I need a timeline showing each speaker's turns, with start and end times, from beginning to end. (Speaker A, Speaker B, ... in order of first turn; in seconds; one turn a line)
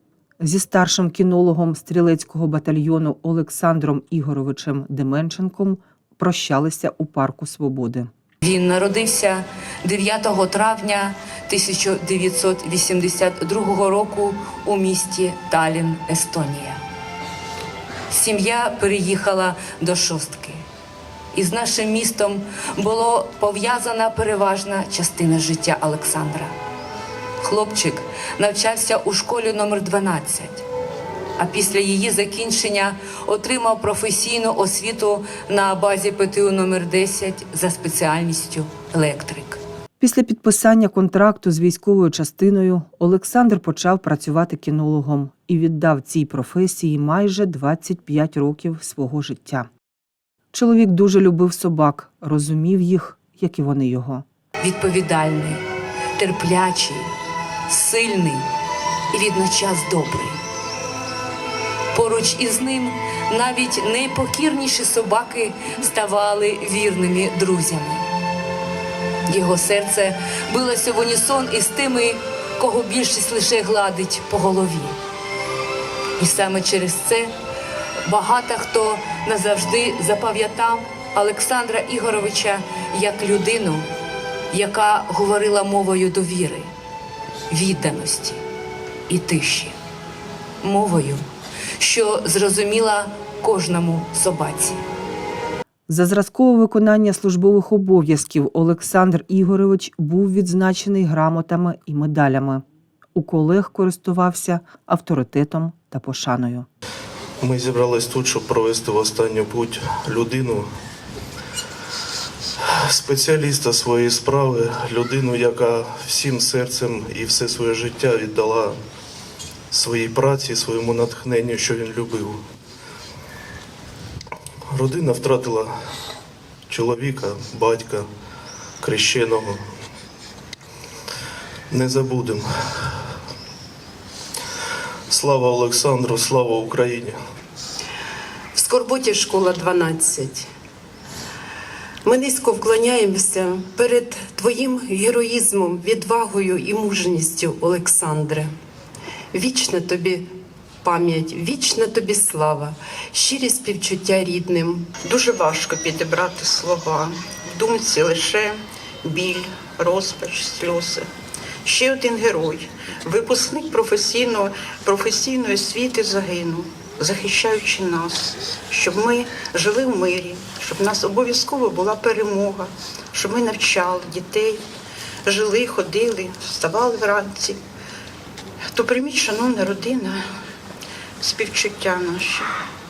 Speaker A: 0.4-8.1
Speaker B: 8.4-16.8
Speaker B: 18.1-20.6
Speaker B: 21.3-26.5
Speaker B: 27.4-30.6
Speaker B: 31.4-39.6
Speaker A: 40.0-49.7
Speaker A: 50.5-54.2
Speaker B: 54.6-55.6
Speaker B: 56.2-57.1
Speaker B: 57.7-58.5
Speaker B: 59.1-60.4
Speaker B: 61.9-68.0
Speaker B: 69.3-75.0
Speaker B: 76.2-77.3
Speaker B: 78.0-83.9
Speaker B: 84.5-86.7
Speaker B: 87.5-88.4
Speaker B: 89.1-89.8
Speaker B: 90.6-91.2
Speaker B: 91.8-94.8
Speaker A: 95.9-102.6
Speaker A: 103.1-106.7
Speaker C: 107.4-110.7
Speaker C: 112.7-118.8
Speaker C: 119.7-122.4
Speaker C: 124.7-125.7
Speaker C: 126.7-128.1
Speaker C: 128.8-129.6
Speaker C: 131.7-132.9
Speaker C: 135.1-137.2
Speaker D: 138.5-140.5
Speaker D: 142.0-148.5
Speaker D: 149.3-154.9
Speaker E: 155.0-161.1
Speaker E: 161.6-174.6
Speaker E: 175.2-177.6
Speaker E: 178.7-180.2
Speaker E: 181.2-182.5